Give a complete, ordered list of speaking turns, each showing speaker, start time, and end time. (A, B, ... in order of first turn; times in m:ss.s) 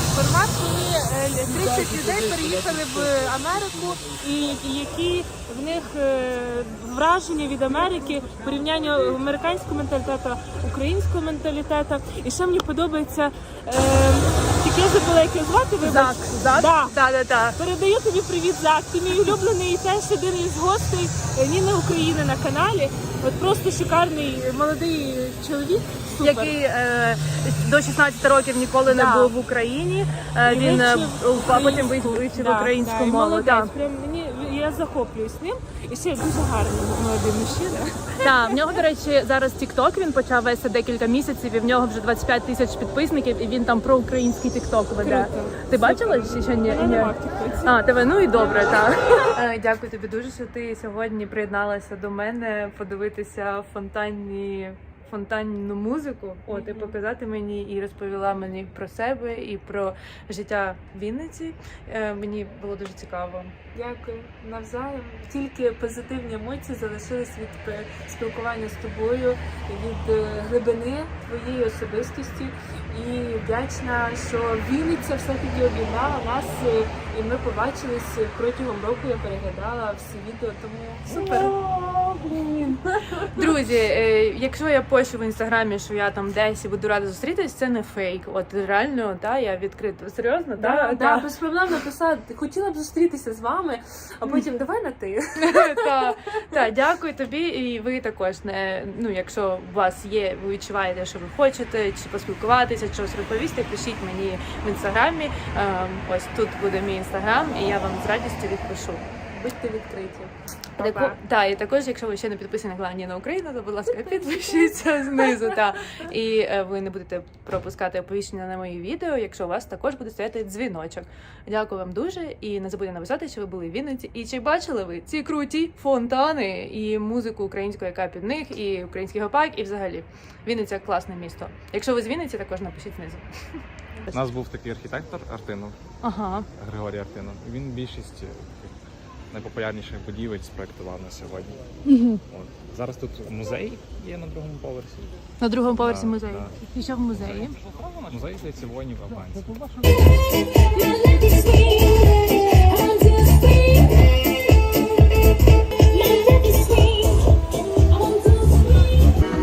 0:00.1-0:17.0 A
0:15.8-0:17.6 B
0:17.6-0:26.5 A
0:26.2-0:33.7 B
0:28.9-0:29.3 A
0:30.5-0:38.6 A
0:38.2-0:47.1 B
0:45.0-0:47.8 A
0:47.6-1:03.5 B
0:48.4-0:49.3 A
0:56.5-0:57.0 A
1:03.7-1:21.6 A
1:21.1-1:22.8 B
1:22.8-1:23.4 A
1:23.3-1:31.3 B
1:30.6-1:35.9 A
1:34.3-1:34.6 B
1:35.4-1:49.0 B
1:49.3-1:51.2 A
1:50.8-2:13.2 B
1:53.9-1:55.6 A
2:14.1-2:15.8 C
2:16.0-2:16.5 B
2:16.6-2:18.8 C
2:19.3-2:21.6 C
2:21.9-2:22.2 B
2:22.3-2:25.2 C
2:25.4-2:27.6 B
2:25.8-2:26.6 C
2:27.1-2:30.0 C
2:30.7-2:34.1 A
2:35.9-2:38.9 A